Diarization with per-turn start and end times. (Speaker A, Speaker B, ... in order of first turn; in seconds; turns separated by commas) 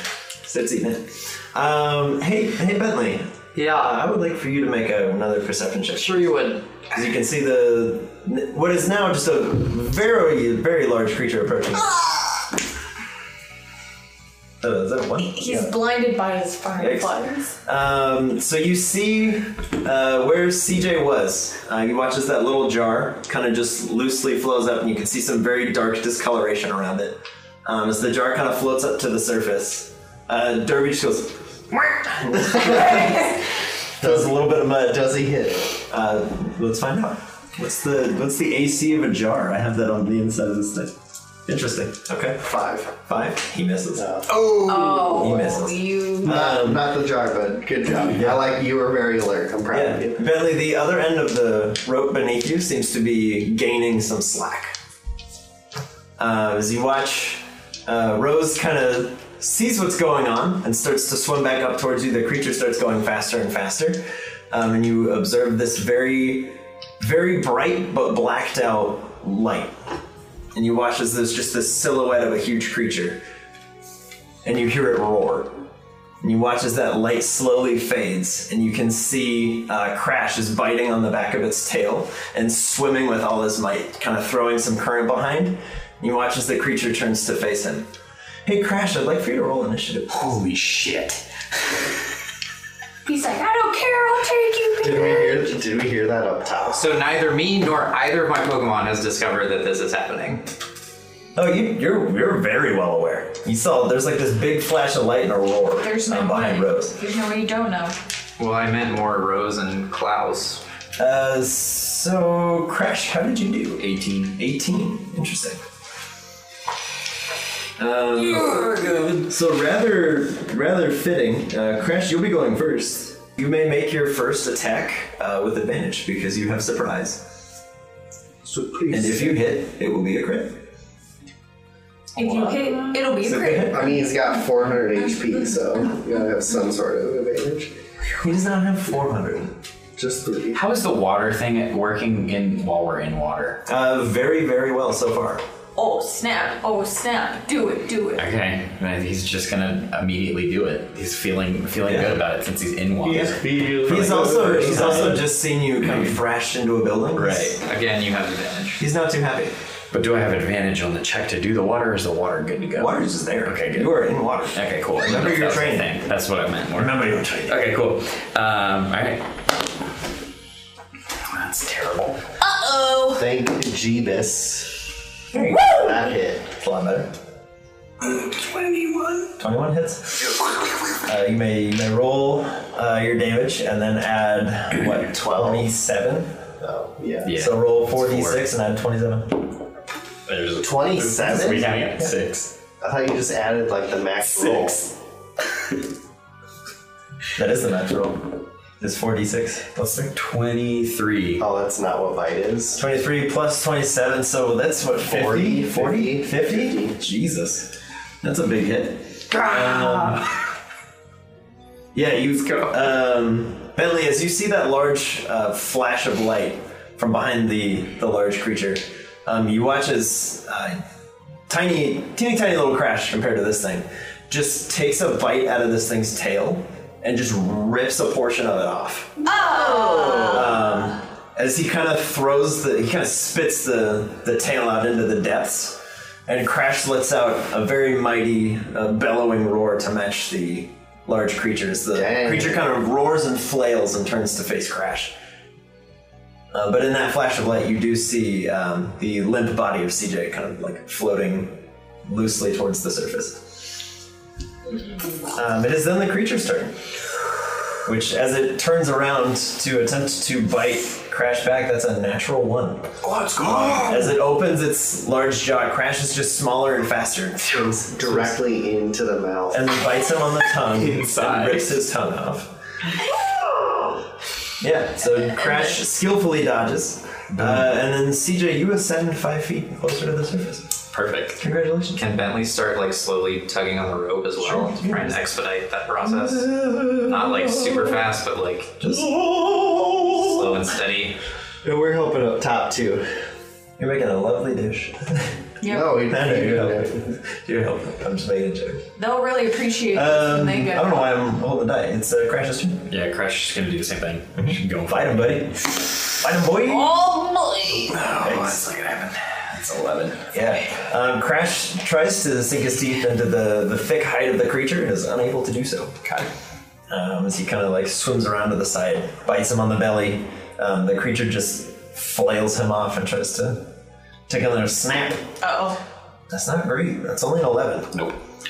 Speaker A: 0.4-6.3, Speaker B: 3.5-4.0, Speaker B: 6.0-6.9, Speaker A: 6.9-12.1, Speaker A: 14.6-15.7, Speaker C: 15.3-17.6, Speaker A: 16.8-35.1, Speaker D: 32.6-33.1, Speaker D: 34.0-35.8, Speaker A: 35.9-41.0, Speaker A: 41.5-44.1, Speaker D: 42.4-43.0, Speaker D: 44.0-44.4, Speaker E: 44.3-45.2, Speaker C: 44.7-46.4, Speaker A: 45.1-46.9, Speaker D: 46.2-50.2, Speaker E: 47.9-48.1, Speaker A: 48.0-48.5, Speaker A: 49.7-54.8, Speaker A: 56.2-69.8, Speaker A: 70.5-73.2, Speaker A: 74.4-75.6, Speaker A: 76.2-87.9, Speaker A: 88.5-90.4, Speaker E: 90.1-91.2, Speaker C: 93.1-95.5, Speaker D: 94.8-96.9, Speaker B: 96.7-100.4, Speaker A: 101.4-107.0, Speaker C: 105.8-108.0, Speaker B: 108.4-110.6, Speaker A: 111.0-115.6, Speaker E: 113.8-114.4, Speaker A: 117.8-127.3, Speaker E: 118.2-119.2, Speaker D: 128.4-129.3, Speaker A: 128.9-130.6, Speaker C: 132.2-134.4, Speaker A: 132.2-134.0, Speaker D: 133.7-137.8, Speaker C: 135.0-135.3, Speaker A: 138.0-139.6, Speaker D: 140.0-140.6, Speaker E: 140.5-143.6, Speaker A: 143.7-145.4, Speaker C: 145.8-148.3, Speaker E: 148.2-155.2, Speaker A: 151.8-152.2, Speaker A: 153.1-157.6, Speaker D: 153.5-154.9, Speaker E: 155.9-156.1, Speaker E: 157.2-157.6, Speaker B: 157.6-158.8, Speaker A: 158.8-159.6, Speaker E: 159.9-169.4, Speaker A: 162.8-166.0, Speaker A: 166.8-167.7, Speaker E: 171.3-172.2, Speaker C: 172.4-173.2, Speaker D: 173.2-174.9, Speaker A: 175.3-175.8, Speaker D: 175.7-176.4, Speaker A: 176.4-177.1, Speaker E: 178.0-179.3, Speaker A: 179.4-180.4, Speaker A: 181.0-186.4, Speaker D: 185.1-185.7, Speaker D: 186.6-187.3, Speaker E: 187.2-188.4, Speaker A: 187.3-189.5, Speaker E: 190.3-192.5, Speaker D: 190.6-191.9, Speaker A: 191.3-192.1, Speaker D: 192.8-194.8, Speaker E: 194.3-194.8, Speaker A: 197.3-200.1, Speaker E: 200.1-201.4, Speaker D: 201.4-202.8, Speaker A: 202.8-210.2, Speaker D: 205.0-206.9, Speaker E: 209.5-210.2, Speaker A: 211.9-220.8, Speaker A: 221.5-229.4, Speaker C: 229.2-230.6, Speaker A: 230.2-245.1, Speaker D: 241.9-242.7, Speaker A: 246.5-253.9, Speaker A: 255.2-256.7, Speaker A: 257.8-267.5, Speaker E: 263.0-264.2, Speaker D: 267.5-269.7, Speaker E: 267.5-268.4, Speaker A: 269.5-272.5, Speaker E: 270.5-271.8, Speaker A: 274.6-280.8, Speaker E: 277.3-277.6, Speaker E: 280.9-281.4, Speaker A: 281.4-282.0, Speaker B: 281.9-288.8, Speaker A: 284.4-285.3, Speaker A: 286.0-288.0, Speaker A: 288.8-290.5, Speaker B: 290.1-291.2, Speaker D: 291.6-293.1, Speaker A: 293.8-298.9, Speaker C: 295.6-296.0, Speaker D: 295.6-297.0, Speaker C: 299.0-301.2, Speaker A: 299.9-302.9, Speaker E: 302.9-305.5, Speaker A: 304.4-307.0, Speaker C: 306.7-308.0, Speaker E: 307.7-310.6, Speaker A: 308.2-308.7, Speaker A: 310.3-316.1, Speaker A: 316.9-323.7, Speaker A: 324.3-325.3, Speaker C: 325.4-325.8, Speaker A: 326.3-328.0